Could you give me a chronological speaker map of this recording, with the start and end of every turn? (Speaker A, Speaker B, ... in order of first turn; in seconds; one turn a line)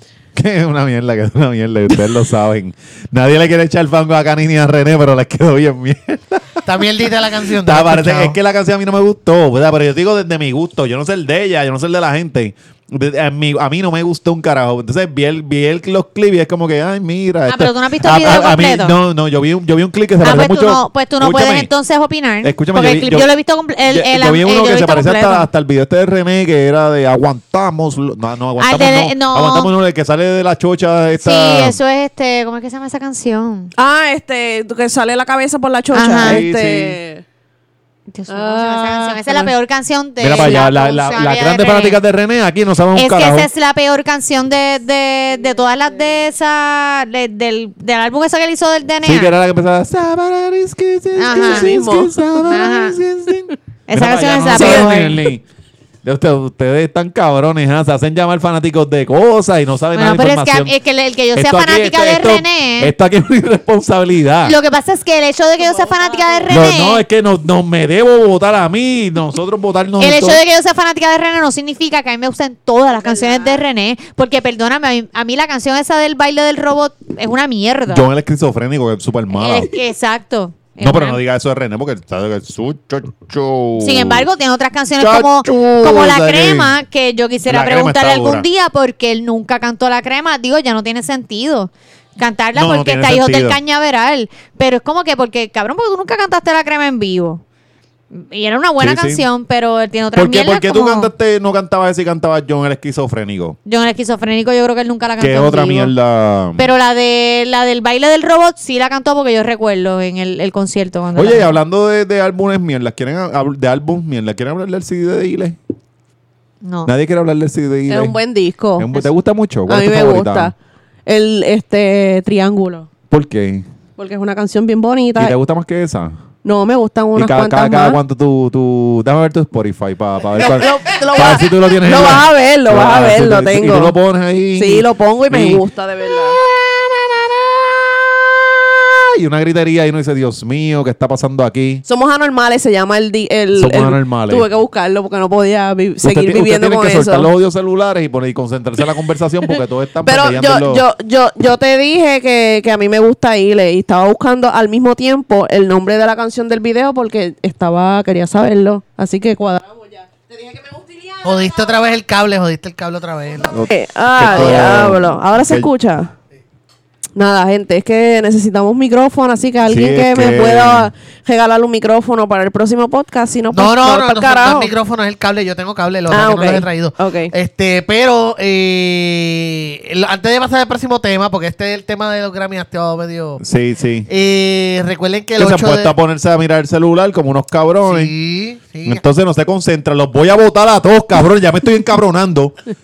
Speaker A: 0.3-6.6
Speaker B: 6.6-8.3
Speaker A: 7.5-21.7
Speaker C: 17.5-18.9
Speaker C: 20.2-25.5
Speaker A: 22.4-23.3
Speaker A: 23.9-31.8
Speaker C: 28.6-29.7
Speaker C: 31.1-33.7
Speaker D: 33.8-37.2
Speaker C: 35.9-36.4
Speaker A: 36.2-37.0
Speaker C: 38.1-42.0
Speaker D: 38.3-39.5
Speaker A: 40.2-43.5
Speaker C: 42.9-49.3
Speaker A: 49.0-55.4
Speaker C: 51.1-51.7
Speaker D: 51.3-52.2
Speaker C: 52.4-53.0
Speaker C: 53.9-55.2
Speaker D: 54.4-55.1
Speaker A: 56.0-60.7
Speaker C: 59.9-62.9
Speaker A: 61.3-64.5
Speaker C: 64.4-67.0
Speaker A: 66.5-70.4
Speaker C: 70.0-78.1
Speaker D: 73.1-73.5
Speaker A: 77.9-79.7
Speaker C: 79.3-81.2
Speaker A: 80.8-84.2
Speaker C: 83.8-97.4
Speaker A: 85.0-86.7
Speaker A: 87.5-88.5
Speaker A: 92.5-93.6
Speaker C: 98.1-101.1
Speaker A: 98.8-99.2
Speaker A: 100.1-103.6
Speaker C: 103.7-105.9
Speaker A: 105.2-106.7
Speaker C: 106.6-111.5
Speaker A: 111.1-115.6
Speaker C: 116.6-116.9
Speaker A: 116.8-118.2
Speaker D: 117.9-119.0
Speaker A: 118.8-120.5
Speaker D: 119.7-120.5
Speaker D: 121.1-122.9
Speaker A: 123.1-123.7
Speaker D: 124.0-125.3
Speaker A: 125.2-126.1
Speaker D: 126.4-128.0
Speaker A: 127.2-135.6
Speaker D: 130.3-133.9
Speaker D: 134.5-136.4
Speaker A: 136.5-141.8
Speaker D: 141.8-147.3
Speaker A: 143.6-144.5
Speaker A: 146.0-150.8
Speaker D: 150.0-161.8
Speaker B: 161.2-163.6
Speaker A: 163.5-165.7
Speaker D: 163.7-166.1
Speaker B: 164.3-164.7
Speaker D: 167.1-174.7
Speaker A: 169.7-170.9
Speaker B: 173.5-183.4
Speaker D: 176.1-177.3
Speaker A: 183.4-184.1
Speaker B: 184.1-185.9
Speaker A: 185.4-188.1
Speaker B: 187.8-189.0
Speaker A: 188.8-192.5